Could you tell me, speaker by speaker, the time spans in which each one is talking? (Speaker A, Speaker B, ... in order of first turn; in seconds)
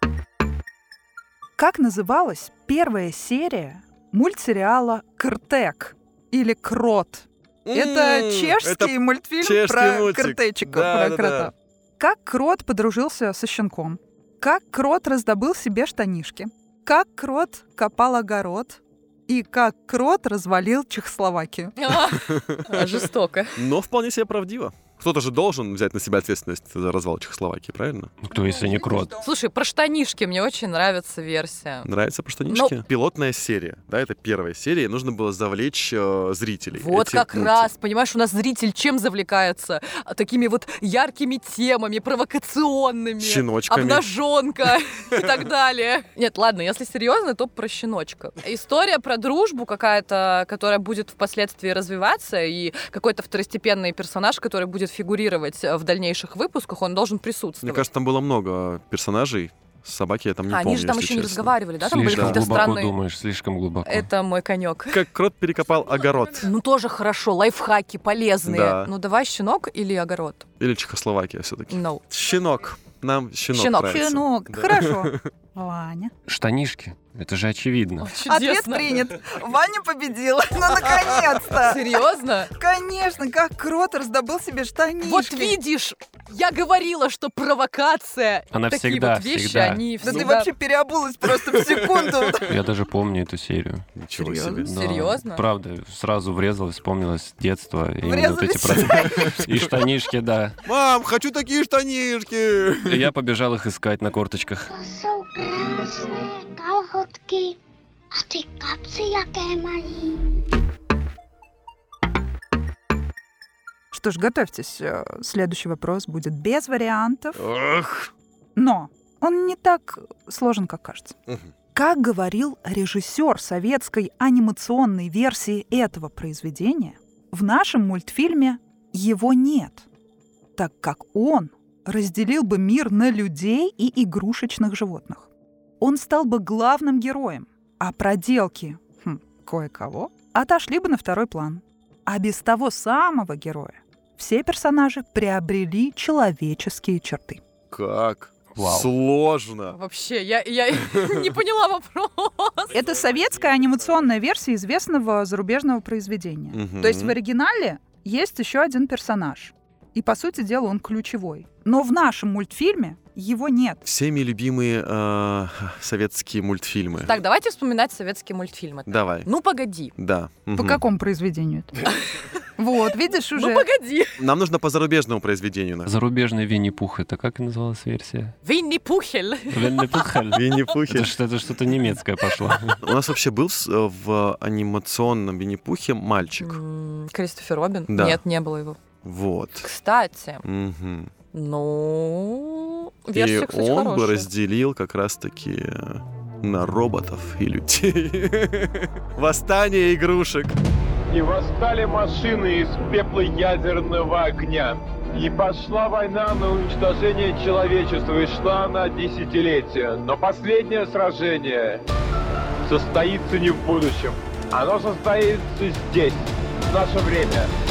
Speaker A: 1.6-21.8, 28.3-29.2, 73.9-76.1, 78.2-81.8, 82.5-85.6, 90.0-92.6, 94.2-94.7, 98.0-99.3, 113.9-117.4, 118.5-121.2, 121.7-129.9, 130.6-147.4, 152.7-163.8, 170.5-171.7, 172.6-173.7
Speaker B: 7.6-11.5, 22.1-23.0, 23.6-28.1, 31.8-37.7, 43.2-44.1, 57.6-61.5, 62.1-62.6, 64.9-66.5, 68.4-68.9, 70.6-75.2, 94.0-94.7, 98.9-99.6, 100.6-103.1, 117.3-118.1, 147.7-149.8, 156.5-157.2, 163.8-167.2, 168.8-169.3, 169.9-170.8, 174.2-175.9, 180.3-181.2, 182.8-186.6, 187.9-188.2, 189.0-189.7, 190.4-191.1, 193.1-200.6
Speaker C: 21.8-23.6, 29.2-31.9, 32.5-32.7, 36.7-57.9, 60.5-63.0, 63.8-65.0, 66.4-70.4, 71.7-72.0, 73.5-74.1, 78.0-79.0, 81.6-82.5, 85.0-90.5, 94.7-95.4, 149.7-152.8, 167.0-169.9, 173.3-174.2, 178.4-180.2, 186.4-188.8, 189.6-190.4, 191.3-194.3
Speaker D: 28.2-29.1, 61.8-64.1, 76.3-78.1, 88.5-89.8, 92.5-93.8, 94.6-100.6, 102.9-104.7, 148.6-148.9, 175.8-178.3, 179.5-182.8
Speaker E: 104.7-107.6, 108.1-110.3
Speaker F: 201.1-211.8, 212.7-217.5